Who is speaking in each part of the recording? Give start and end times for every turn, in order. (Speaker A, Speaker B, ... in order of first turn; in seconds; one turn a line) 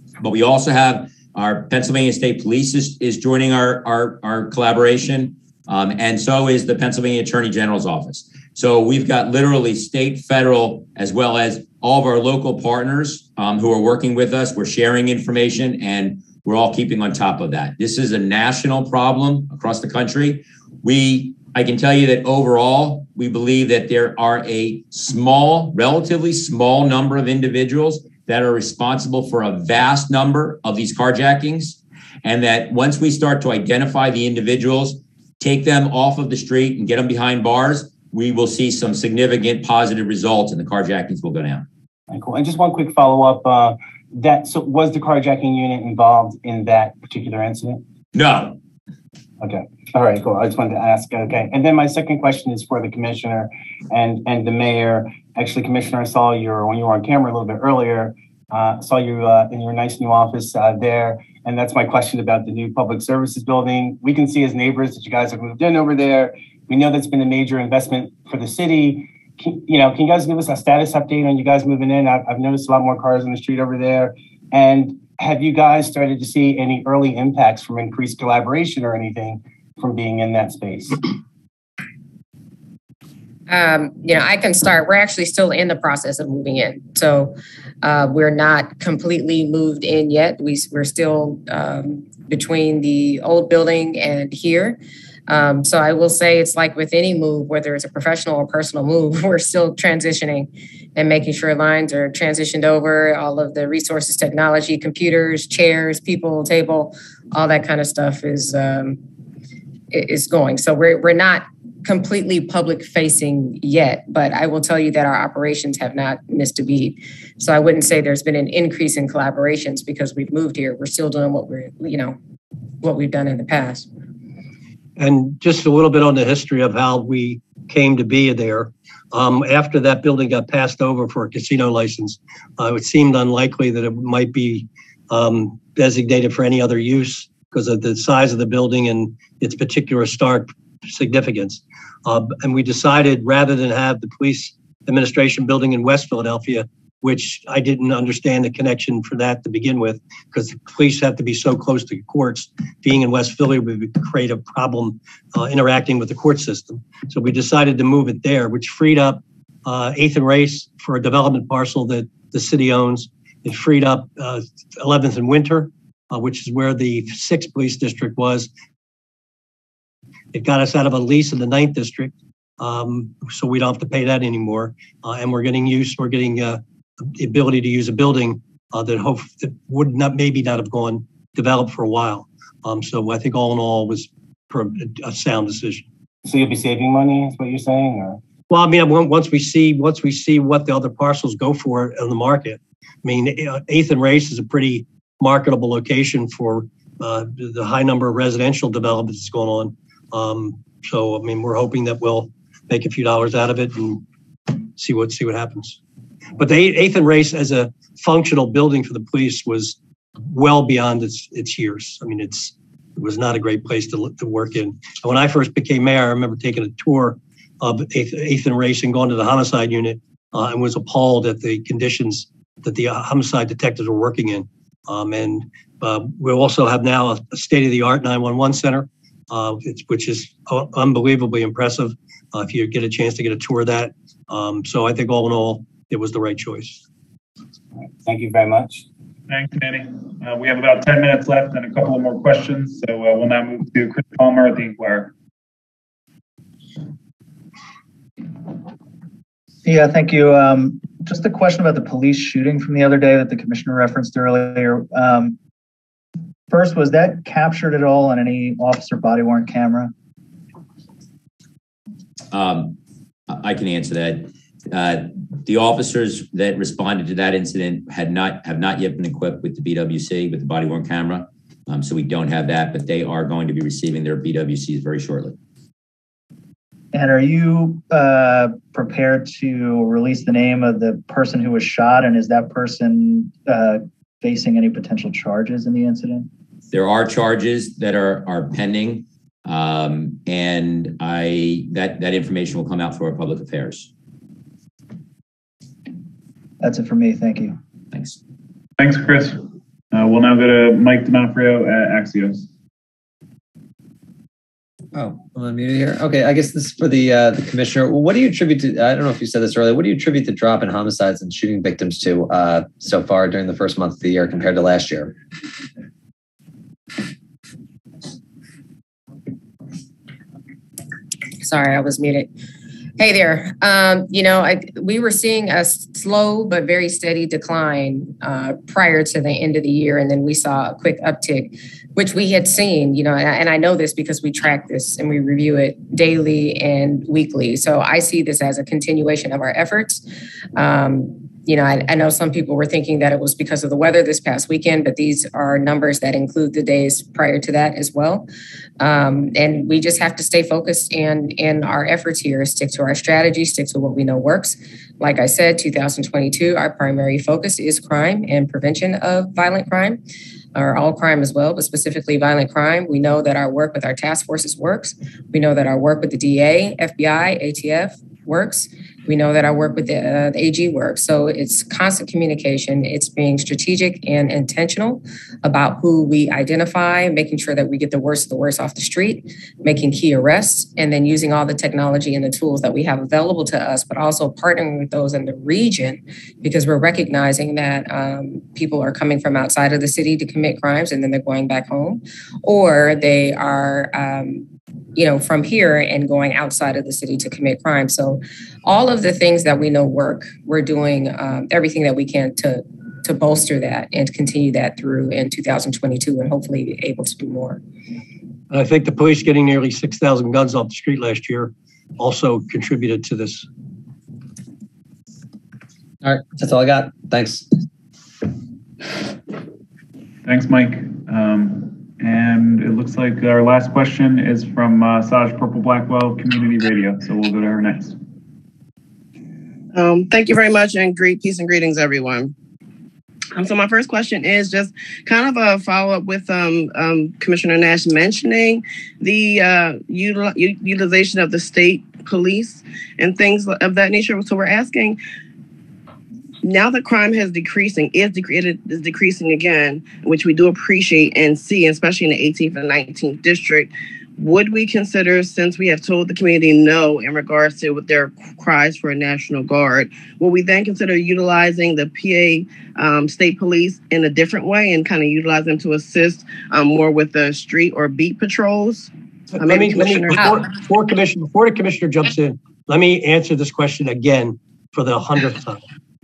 Speaker A: 0.2-41.6
Speaker B: 42.1-47.8
Speaker A: 48.1-48.6
Speaker B: 49.4-81.0
Speaker C: 83.5-109.0
Speaker C: 109.9-122.2
Speaker C: 122.8-123.9
Speaker D: 125.0-168.5
Speaker D: 170.3-185.8
Speaker B: 186.2-188.2
Speaker D: 188.5-204.0
Speaker D: 204.5-205.8
Speaker D: 206.4-209.8
Speaker D: 210.3-236.8
Speaker B: 238.0-238.8
Speaker E: 239.3-245.1
Speaker F: 249.6-255.3
Speaker F: 256.5-259.9
Speaker A: 262.3-262.8
Speaker A: 263.3-275.4
Speaker F: 276.9-286.3
Speaker A: 286.7-293.9
Speaker F: 296.6-297.6
Speaker A: 297.9-298.2
Speaker E: 298.8-302.5
Speaker G: 304.9-315.1
Speaker C: 321.4-322.3
Speaker C: 323.0-340.0
Speaker C: 340.6-348.3
Speaker C: 348.8-360.0
Speaker C: 360.5-407.6
Speaker D: 408.5-413.5
Speaker G: 416.0-417.4
Speaker E: 420.2-428.0
Speaker H: 429.7-432.3
Speaker H: 433.3-445.0
Speaker H: 446.4-470.5
Speaker D: 469.3-475.6